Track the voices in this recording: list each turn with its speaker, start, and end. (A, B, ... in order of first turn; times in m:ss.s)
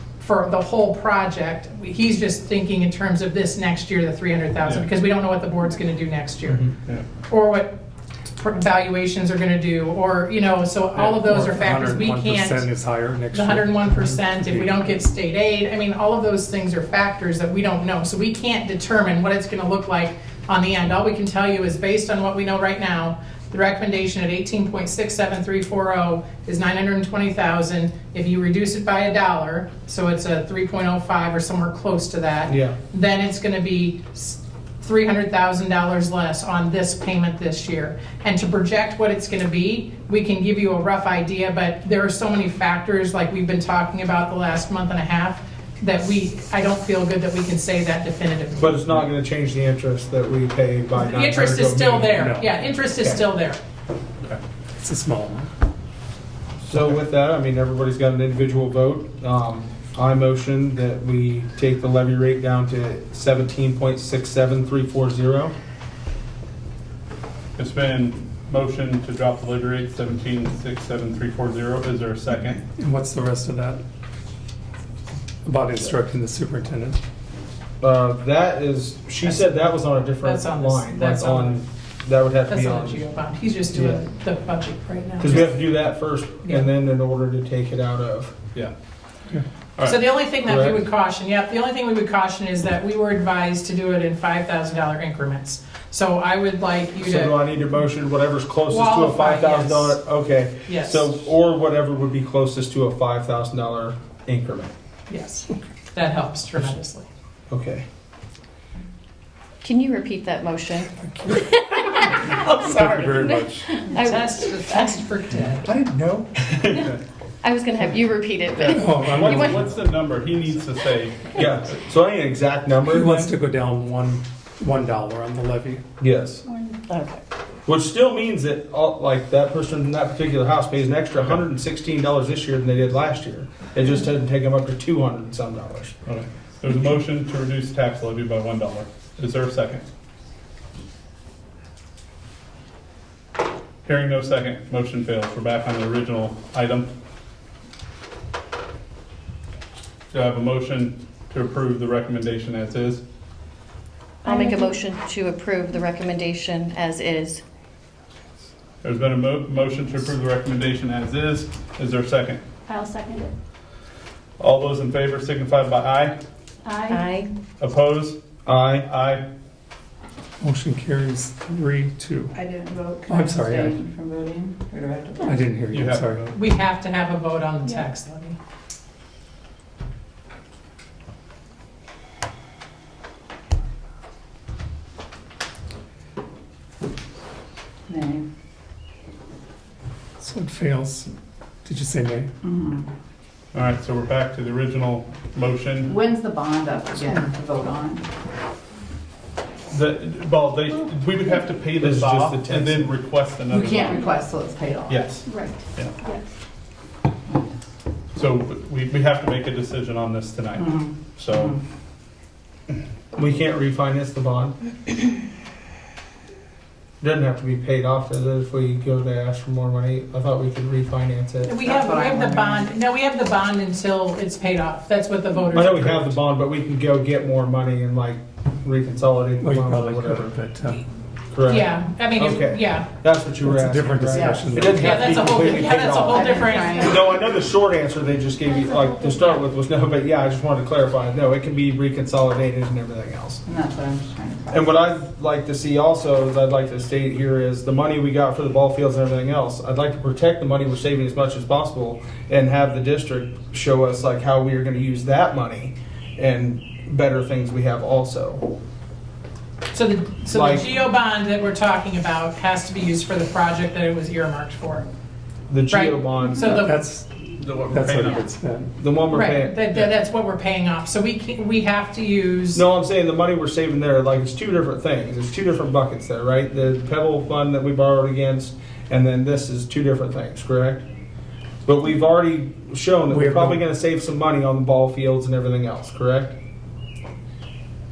0:00.2-0:06.7 A
0:07.3-0:07.8 A
0:08.4-0:12.7 A
0:11.0-0:14.8 B
0:13.3-0:48.8 A
0:32.5-0:32.8 C
0:48.6-0:52.2 C
0:51.0-0:53.6 A
0:52.2-0:52.6 B
0:54.8-0:55.5 B
0:56.6-1:05.5 C
1:07.6-1:12.6 D
1:12.7-1:13.8 B
1:15.4-1:17.0 B
1:17.8-1:23.1 C
1:19.2-1:19.6 A
1:20.2-1:21.6 A
1:22.5-1:25.5 A
1:23.7-1:24.0 C
1:25.2-1:28.4 C
1:29.8-1:37.4 A
1:30.4-1:30.8 C
1:37.0-1:44.7 C
1:38.7-1:40.0 A
1:40.7-1:41.1 A
1:45.1-1:47.1 A
1:47.5-1:47.8 C
1:49.6-1:52.1 E
1:51.0-1:51.4 B
1:52.1-1:53.6 B
1:52.4-1:53.2 C
1:53.7-1:55.0 E
1:53.9-1:55.7 A
1:55.7-1:56.9 C
1:57.4-1:59.6 E
1:58.6-1:59.6 B
1:58.9-2:01.5 D
2:01.3-2:03.3 C
2:02.9-2:05.8 B
2:06.0-2:06.4 C
2:06.4-2:07.2 E
2:07.6-2:15.9 C
2:16.0-2:19.8 D
2:23.8-2:26.9 D
2:30.1-2:33.0 D
2:34.2-2:34.8 F
2:34.3-2:37.4 E
2:38.8-2:42.4 D
2:42.7-2:43.3 F
2:44.4-2:46.2 D
2:46.6-2:47.1 F
2:46.9-2:47.3 E
2:47.6-2:48.2 D
2:48.4-2:48.9 C
2:48.8-2:49.2 D
2:50.4-2:52.3 B
2:52.3-2:55.4 G
2:53.1-2:53.8 B
2:55.2-2:56.3 B
2:55.7-2:56.4 D
2:56.3-2:58.4 A
3:07.9-3:08.2 G
3:10.2-3:11.1 B
3:11.6-3:12.3 B
3:12.4-3:12.9 G
3:13.5-3:15.9 D
3:15.8-3:18.0 G
3:19.7-3:24.1 D
3:21.8-3:22.9 C
3:23.5-3:25.1 G
3:24.9-3:26.0 D
3:25.3-3:26.2 F
3:28.1-3:31.6 D
3:30.6-3:31.6 G
3:33.1-3:34.5 C
3:37.0-3:41.6 C
3:41.4-3:46.1 A
3:41.6-3:42.7 G
3:45.5-3:50.3 C
3:49.4-3:50.8 B
3:51.3-4:03.4 C
3:51.4-3:52.9 A
3:53.4-3:55.4 B
3:54.1-3:54.6 G
3:54.6-3:57.0 A
3:56.0-3:57.1 G
3:58.4-3:59.4 F
4:03.4-4:04.8 G
4:04.5-4:18.5 C
4:19.7-4:24.8 A
4:20.3-4:20.6 C
4:25.5-4:26.6 C
4:25.7-4:26.8 A
4:26.6-4:27.1 B
4:27.4-4:28.2 D
4:27.6-4:28.7 B
4:28.8-4:29.9 C
4:29.1-4:32.6 A
4:32.5-4:40.8 C
4:41.6-4:46.3 C
4:43.1-4:43.6 B